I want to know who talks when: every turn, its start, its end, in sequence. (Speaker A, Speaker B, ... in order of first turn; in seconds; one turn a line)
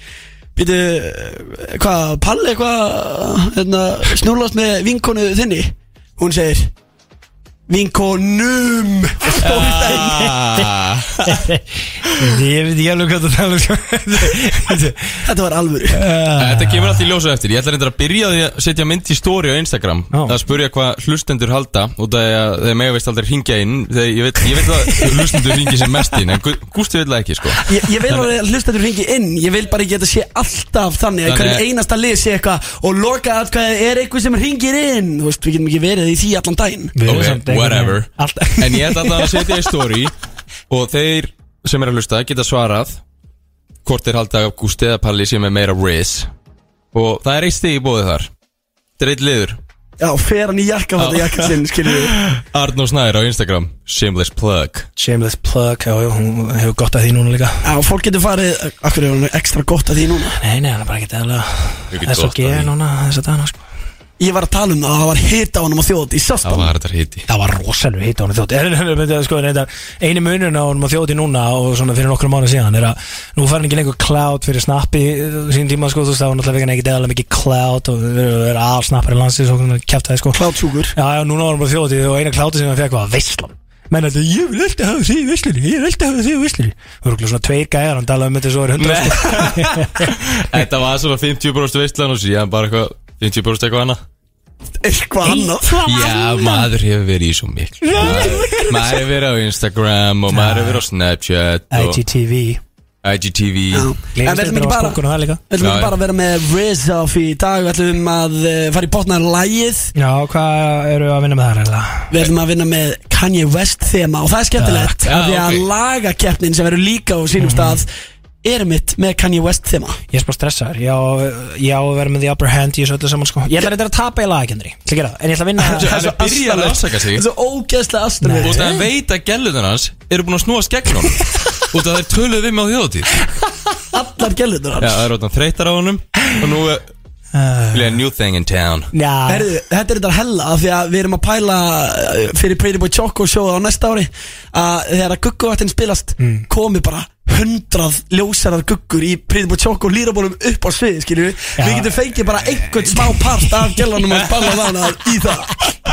Speaker A: 0.6-6.7
Speaker A: 7.7-10.3
Speaker B: 9.4-11.2
Speaker C: 9.9-10.7
Speaker C: 11.2-15.2
Speaker A: 15.2-16.0
Speaker C: 15.9-17.1
Speaker B: 16.4-27.6
Speaker C: 20.1-20.4
Speaker C: 24.9-25.5
Speaker A: 27.7-36.9
Speaker B: 31.3-31.6
Speaker C: 37.0-39.5
Speaker B: 37.0-40.1
Speaker B: 40.7-43.0
Speaker B: 43.9-46.3
Speaker B: 46.9-48.3
Speaker B: 49.0-49.6
Speaker A: 50.0-52.2
Speaker B: 51.0-54.9
Speaker C: 55.0-57.6
Speaker A: 57.6-60.4
Speaker C: 60.4-63.6
Speaker B: 61.9-62.7
Speaker A: 64.2-66.7
Speaker B: 66.4-67.3
Speaker C: 67.3-80.4
Speaker A: 80.3-80.9
Speaker C: 80.9-90.3
Speaker B: 88.8-94.0
Speaker A: 94.8-95.8
Speaker C: 95.2-96.7
Speaker B: 95.8-102.0
Speaker C: 97.8-99.0
Speaker C: 100.3-100.8
Speaker C: 101.7-102.6
Speaker B: 103.0-103.9
Speaker A: 103.7-109.9
Speaker C: 104.2-105.4
Speaker B: 105.6-105.9
Speaker C: 110.0-112.1
Speaker A: 112.1-117.9
Speaker C: 114.6-115.0
Speaker B: 115.0-115.7
Speaker C: 117.4-117.8
Speaker A: 118.4-120.0
Speaker C: 120.1-125.9
Speaker A: 125.6-128.8
Speaker B: 125.6-127.2
Speaker C: 128.2-128.8
Speaker B: 128.4-133.2
Speaker A: 133.9-135.1
Speaker B: 134.8-136.8
Speaker C: 137.3-138.0
Speaker B: 137.7-138.9
Speaker C: 138.9-139.5
Speaker A: 139.3-155.6
Speaker C: 146.2-146.5
Speaker C: 151.6-151.9
Speaker C: 152.9-153.9